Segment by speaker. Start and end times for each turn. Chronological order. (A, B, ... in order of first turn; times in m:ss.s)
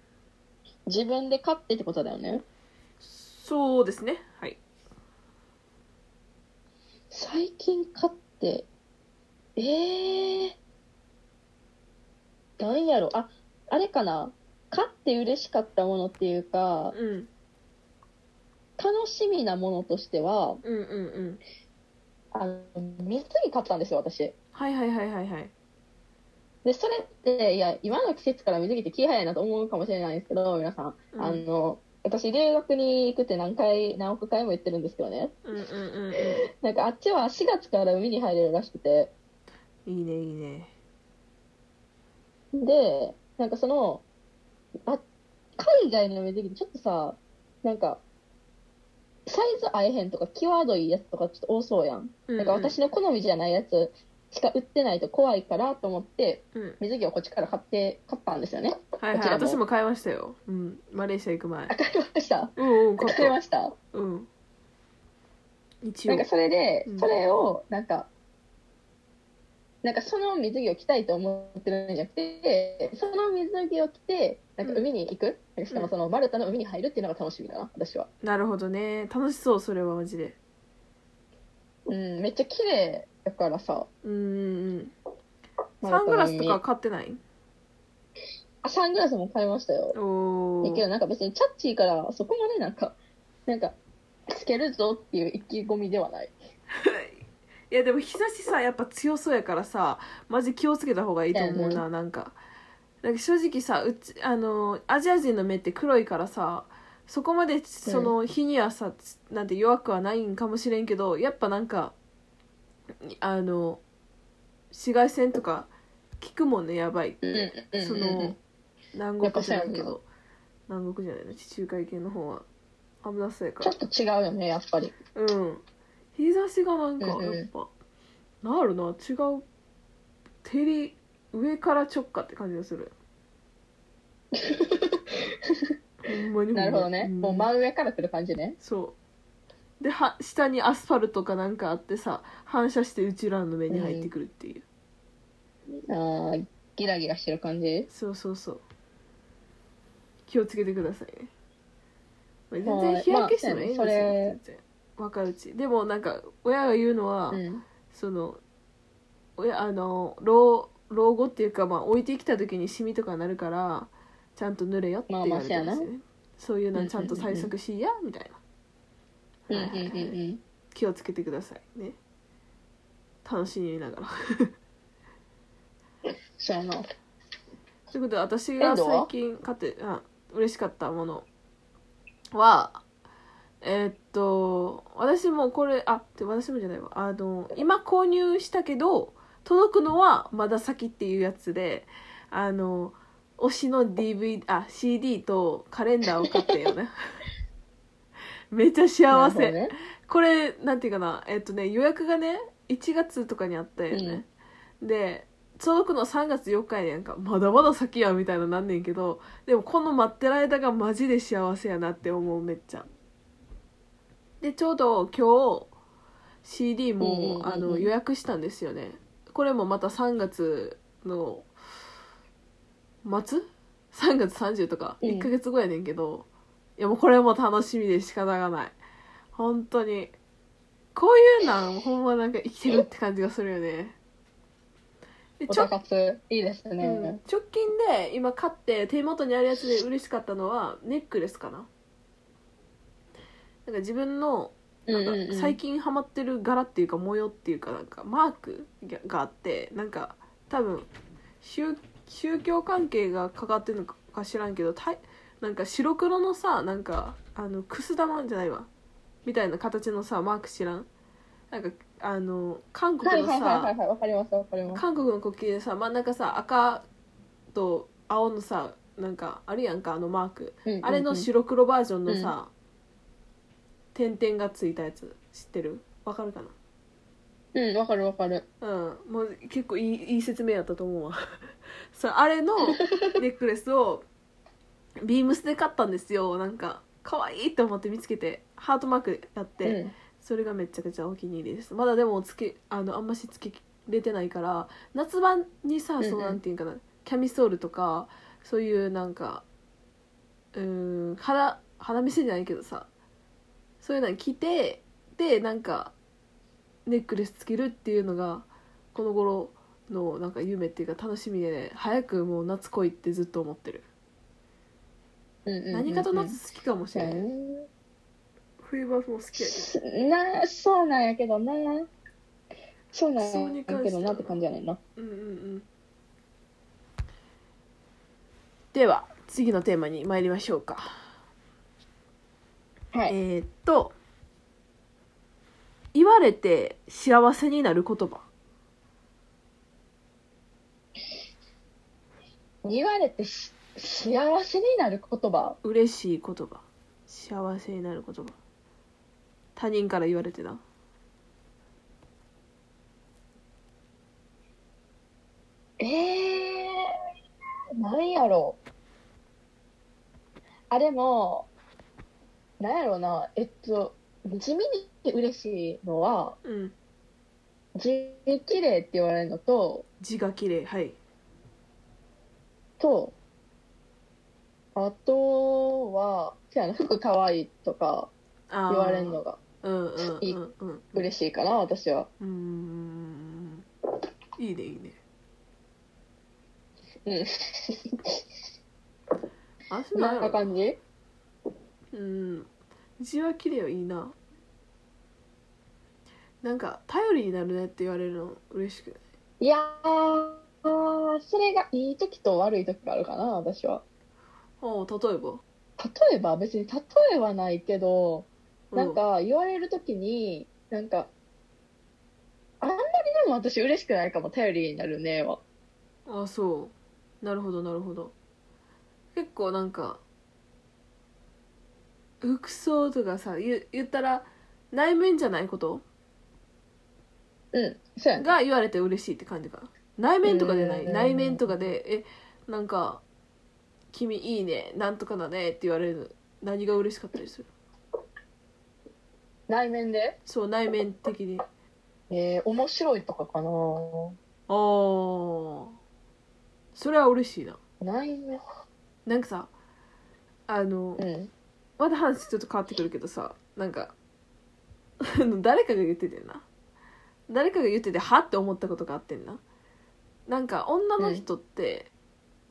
0:00.9-0:02.4 A
0:03.0-0:04.6 B
0:07.1-0:08.7 A
0:09.6-0:10.6 A
0:12.6-0:17.0 A
0:16.9-0:17.3 B
0:18.8-0:20.6 A
0:20.6-0:21.4 B
0:22.3-0:24.3 A
0:24.6-0:25.5 B
0:26.6-0:35.4 A
0:31.1-0:31.4 B
0:35.5-0:36.4 B
0:36.6-0:39.1 A
0:39.9-0:40.7 B
0:42.5-0:44.0 A
0:45.6-0:48.0 A
0:49.3-0:59.6 A
0:52.3-0:52.8 B
0:59.0-1:01.7 B
1:01.7-1:03.8 A
1:02.6-1:03.4 B
1:03.9-1:04.3 B
1:05.8-1:06.3 B
1:06.1-1:08.1 A
1:09.8-1:18.1 A
1:18.2-1:20.4 B
1:21.9-1:23.9 A
1:24.0-1:24.9 B
1:25.8-1:26.6 A
1:25.9-1:27.2 B
1:28.6-1:30.0 A
1:29.9-1:30.9 B
1:30.6-1:33.0 A
1:33.5-1:33.8 A
1:34.3-1:36.3 A
1:36.8-1:37.2 B
1:37.7-1:42.4 B
1:41.3-1:41.8 A
1:43.0-1:51.9 B
1:47.9-1:48.1 A
1:53.1-1:53.8 B
1:54.7-1:58.4 B
1:57.2-1:58.4 A
1:58.9-2:00.0 B
1:59.2-2:00.0 A
2:00.7-2:02.5 B
2:03.0-2:03.8 B
2:03.6-2:05.0 A
2:05.2-2:05.6 B
2:06.2-2:07.7 B
2:07.0-2:07.5 A
2:08.4-2:09.4 B
2:10.4-2:12.9 B
2:14.3-2:15.7 A
2:16.1-2:17.5 B
2:16.5-2:18.6 A
2:18.6-2:19.0 B
2:19.8-2:24.6 B
2:23.7-2:24.1 A
2:25.9-2:27.9 A
2:27.9-2:28.6 B
2:30.3-2:31.3 B
2:32.5-2:38.4 B
2:32.7-2:34.4 A
2:37.3-2:37.6 A
2:39.4-2:48.4 B
2:45.1-2:45.9 A
2:46.8-2:47.5 A
2:49.5-2:50.2 B
2:49.5-2:50.4 A
2:50.7-2:52.0 B
2:53.2-2:54.5 B
2:56.4-2:56.8 A
2:57.9-3:01.3 B
2:58.6-2:59.1 A
3:02.3-3:02.8 B
3:03.6-3:16.9 B
3:18.5-3:24.3 B
3:19.1-3:19.7 A
3:23.9-3:24.2 A
3:24.8-3:32.9 B
3:34.4-3:35.7 B
3:36.4-3:41.5 B
3:37.0-3:37.9 A
3:43.0-3:46.3 B
3:45.0-3:45.3 A
3:46.8-3:48.8 B
3:49.4-3:50.2 B
3:51.0-3:54.0 B
3:55.4-3:55.7 B
3:55.5-3:57.2 A
3:56.8-4:01.7 B
4:03.7-4:10.9 B
4:04.9-4:05.6 A
4:11.4-4:18.7 B
4:19.2-4:20.9 B
4:21.5-4:23.7 B
4:23.0-4:24.8 A
4:24.7-4:26.8 B
4:27.5-4:32.5 B
4:30.7-4:31.3 A
4:32.1-4:32.3 A
4:33.9-4:36.5 B
4:37.5-4:38.4 A
4:38.6-4:41.2 B
4:41.9-4:44.0 B
4:42.8-4:43.1 A
4:45.0-4:59.4 B
4:49.6-4:49.9 A
4:56.0-4:56.4 A
5:00.5-5:02.9 B
5:03.8-5:05.9 B
5:06.9-5:13.8 B
5:15.5-5:16.4 A
5:15.7-5:17.2 B
5:17.0-5:17.7 A
5:18.6-5:19.7 B
5:19.4-5:21.9 A
5:22.9-5:24.8 A
5:23.2-5:24.4 B
5:25.0-5:25.7 B
5:28.7-5:31.0 B
5:33.1-5:34.0 B
5:35.9-5:38.2 B
5:42.6-5:45.6 A
5:45.6-5:48.4 B
5:49.6-5:50.6 B
5:55.8-5:56.8 A
5:57.8-5:58.6 A
6:00.7-6:01.5 A
6:02.6-6:06.4 A
6:06.4-6:06.7 B
6:07.8-6:09.9 A
6:10.0-6:11.0 B
6:12.8-6:13.2 A
6:14.8-6:18.1 A
6:18.5-6:21.1 B
6:18.7-6:19.4 A
6:21.0-6:22.1 A
6:22.2-6:23.7 B
6:24.4-6:25.0 B
6:27.1-6:28.2 A
6:29.7-6:30.5 B
6:30.0-6:30.8 A
6:31.9-6:34.2 B
6:36.4-6:39.0 B
6:39.4-6:43.8 A
6:44.6-6:45.4 B
6:45.8-6:51.1 A
6:48.7-6:49.0 B
6:52.6-6:55.4 A
6:56.1-6:58.1 B
6:59.1-7:00.0 B
7:02.2-7:05.8 B
7:07.5-7:08.3 A
7:08.2-7:13.0 B
7:10.2-7:11.4 A
7:13.9-7:17.5 B
7:19.5-7:20.2 A
7:20.3-7:21.4 B
7:22.1-7:24.2 A
7:24.5-7:25.7 B
7:26.8-7:27.6 B
7:27.8-7:28.4 A
7:29.1-7:29.5 B
7:30.5-7:31.0 B
7:31.0-7:31.3 A
7:31.8-7:33.9 B
7:35.0-7:36.5 B
7:37.3-7:39.4 B
7:40.3-7:41.9 B
7:41.0-7:41.2 A